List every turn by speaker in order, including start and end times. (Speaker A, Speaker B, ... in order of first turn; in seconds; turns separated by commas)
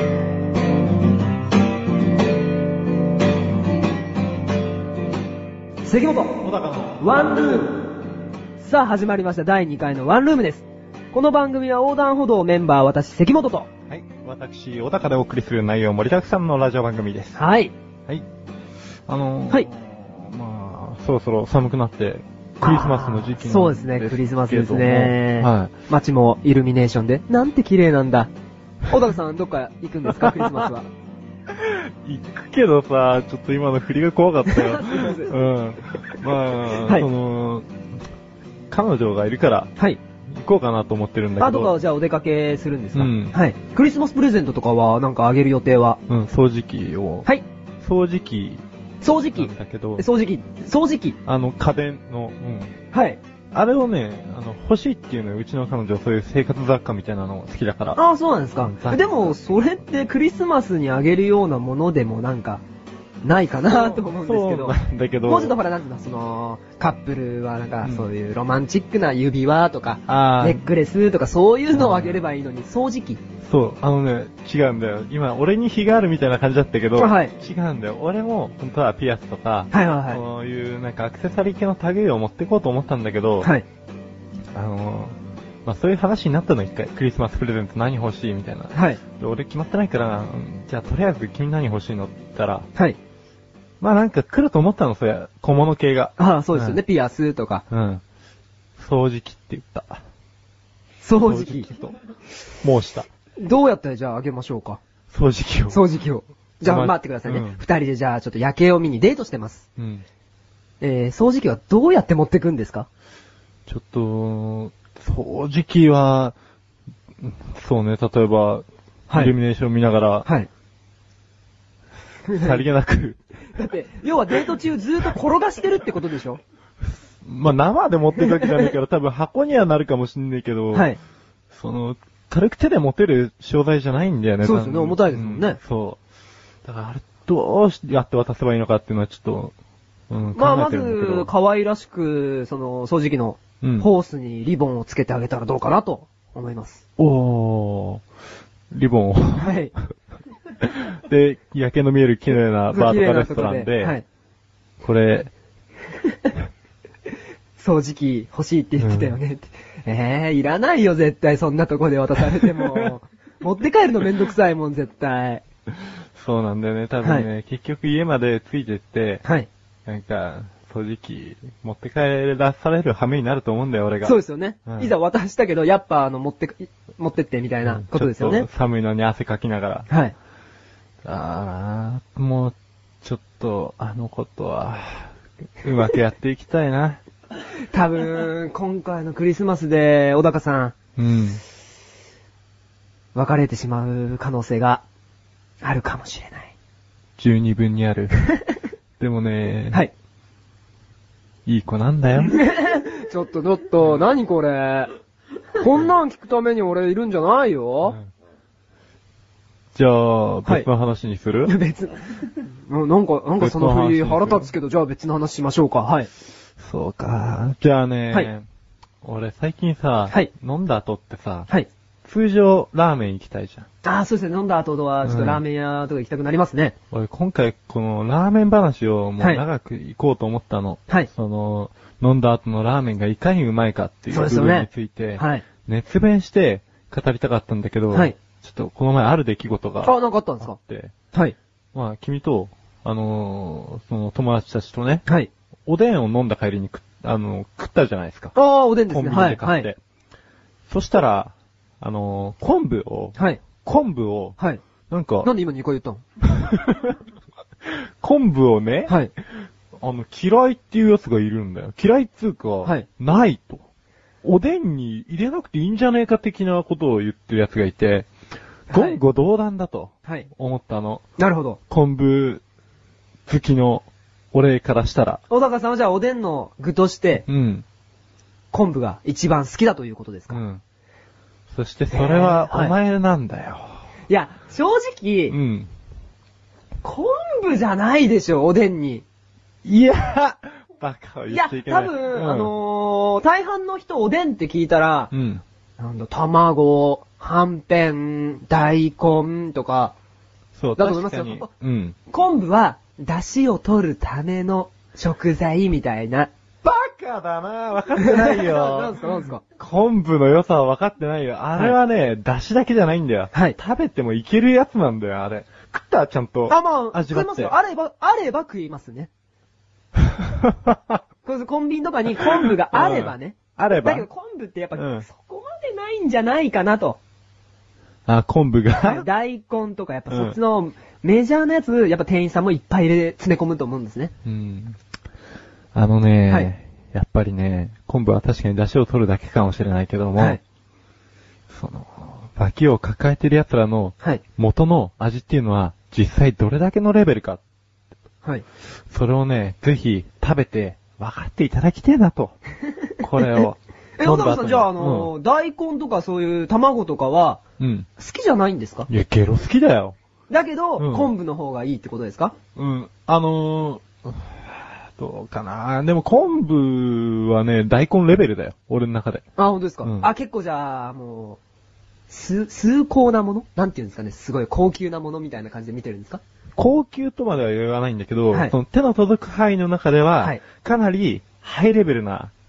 Speaker A: 5.8-6.4, Speaker B: 6.4-7.0, Speaker A: 7.0-7.8, Speaker A: 8.6-13.7, Speaker B: 13.9-17.4, Speaker A: 17.4-17.7, Speaker B: 19.1-25.7, Speaker A: 22.6-28.3, Speaker A: 28.9-30.9, Speaker B: 30.1-30.7, Speaker B: 31.5-37.7, Speaker A: 34.5-35.3, Speaker A: 36.8-37.1, Speaker B: 38.7-39.7, Speaker B: 40.3-41.7, Speaker A: 41.4-46.0, Speaker B: 42.9-43.4, Speaker B: 46.1-47.3, Speaker B: 47.8-50.0, Speaker A: 49.0-51.2, Speaker B: 51.2-52.7, Speaker A: 52.9-53.2, Speaker B: 53.5-58.0, Speaker A: 58.0-62.6, Speaker B: 58.6-59.2, Speaker A: 63.2-73.2, Speaker B: 63.7-65.5, Speaker B: 70.1-70.6, Speaker B: 71.7-72.2, Speaker B: 73.4-83.5, Speaker A: 77.0-77.3, Speaker A: 79.7-80.2, Speaker B: 84.5-92.7, Speaker A: 88.7-89.0, Speaker B: 93.8-96.8, Speaker A: 96.2-97.6, Speaker B: 97.7-98.0, Speaker B: 98.8-100.0, Speaker A: 101.0-101.7, Speaker B: 101.2-102.0, Speaker B: 102.6-103.1, Speaker A: 103.4-104.8, Speaker B: 105.1-105.8, Speaker A: 105.7-109.7, Speaker B: 106.6-107.6, Speaker B: 109.8-110.0, Speaker A: 110.8-112.9, Speaker B: 113.7-116.3, Speaker B: 117.2-120.3, Speaker A: 122.2-122.6, Speaker B: 122.3-123.2, Speaker A: 123.5-126.4, Speaker B: 127.0-130.9, Speaker A: 128.3-128.7, Speaker A: 130.7-131.0, Speaker B: 131.5-136.0, Speaker A: 134.4-135.6, Speaker B: 136.6-139.5, Speaker B: 140.1-141.3, Speaker A: 140.3-146.8, Speaker B: 143.6-143.9, Speaker B: 147.0-148.0, Speaker B: 148.7-149.7, Speaker A: 149.4-149.7, Speaker B: 150.6-153.9, Speaker A: 152.7-154.0, Speaker B: 154.8-155.3, Speaker A: 157.6-165.4, Speaker B: 158.8-159.2, Speaker B: 162.4-162.9, Speaker B: 166.1-169.2, Speaker A: 167.0-167.3, Speaker B: 169.8-174.9, Speaker A: 174.0-178.5, Speaker B: 177.6-179.9, Speaker A: 179.9-180.1, Speaker B: 181.0-187.0, Speaker A: 187.7-190.7, Speaker B: 191.0-191.4, Speaker A: 193.1-194.8, Speaker A: 195.6-196.5, Speaker B: 197.2-198.4, Speaker B: 199.0-199.9, Speaker B: 201.4-202.4, Speaker A: 202.3-204.9, Speaker A: 205.6-208.0, Speaker B: 207.8-208.1, Speaker B: 209.7-211.5, Speaker A: 211.4-216.1, Speaker B: 213.4-214.5, Speaker B: 216.6-218.4, Speaker B: 219.0-221.5, Speaker B: 222.0-223.7, Speaker A: 223.8-226.7, Speaker B: 225.0-225.4, Speaker B: 226.9-240.9, Speaker A: 234.1-235.4, Speaker A: 239.8-240.6, Speaker B: 241.7-245.0, Speaker B: 245.7-248.3, Speaker A: 248.3-249.7, Speaker B: 248.9-249.8, Speaker B: 250.7-254.4, Speaker A: 253.2-253.4, Speaker B: 254.9-255.3, Speaker A: 255.2-256.0, Speaker B: 256.3-257.0, Speaker B: 257.6-259.0, Speaker A: 258.9-259.1, Speaker B: 259.8-263.6, Speaker B: 264.2-268.1, Speaker A: 268.7-269.0, Speaker B: 268.7-271.0, Speaker A: 271.2-271.6, Speaker B: 271.7-272.4, Speaker B: 273.3-275.2, Speaker A: 275.3-277.2, Speaker B: 277.3-277.6, Speaker A: 278.5-280.4, Speaker B: 280.3-280.6, Speaker B: 281.5-283.8, Speaker A: 281.9-282.7, Speaker A: 284.1-285.4, Speaker B: 285.3-285.7, Speaker A: 286.8-289.0, Speaker B: 289.6-292.5, Speaker A: 291.3-295.1, Speaker B: 295.1-295.4, Speaker A: 295.8-299.9, Speaker B: 300.6-301.9, Speaker A: 300.8-301.5, Speaker A: 302.1-306.3, Speaker B: 306.6-309.0, Speaker A: 308.0-309.4, Speaker B: 309.6-317.5, Speaker A: 316.5-319.1, Speaker B: 320.2-321.0, Speaker A: 321.2-327.0, Speaker B: 322.1-324.1, Speaker B: 324.7-325.1, Speaker B: 328.1-329.1, Speaker A: 328.8-334.1, Speaker B: 330.1-330.4, Speaker B: 334.2-334.8, Speaker B: 335.7-340.4, Speaker B: 341.5-347.4, Speaker B: 348.9-352.4, Speaker B: 353.0-355.1, Speaker A: 354.0-357.4, Speaker B: 357.6-357.9, Speaker A: 358.0-358.9, Speaker B: 358.9-359.9, Speaker A: 360.3-362.3, Speaker B: 360.8-361.1, Speaker B: 362.6-369.2, Speaker A: 369.4-371.4, Speaker B: 369.8-370.1, Speaker A: 372.1-376.2, Speaker B: 376.6-382.3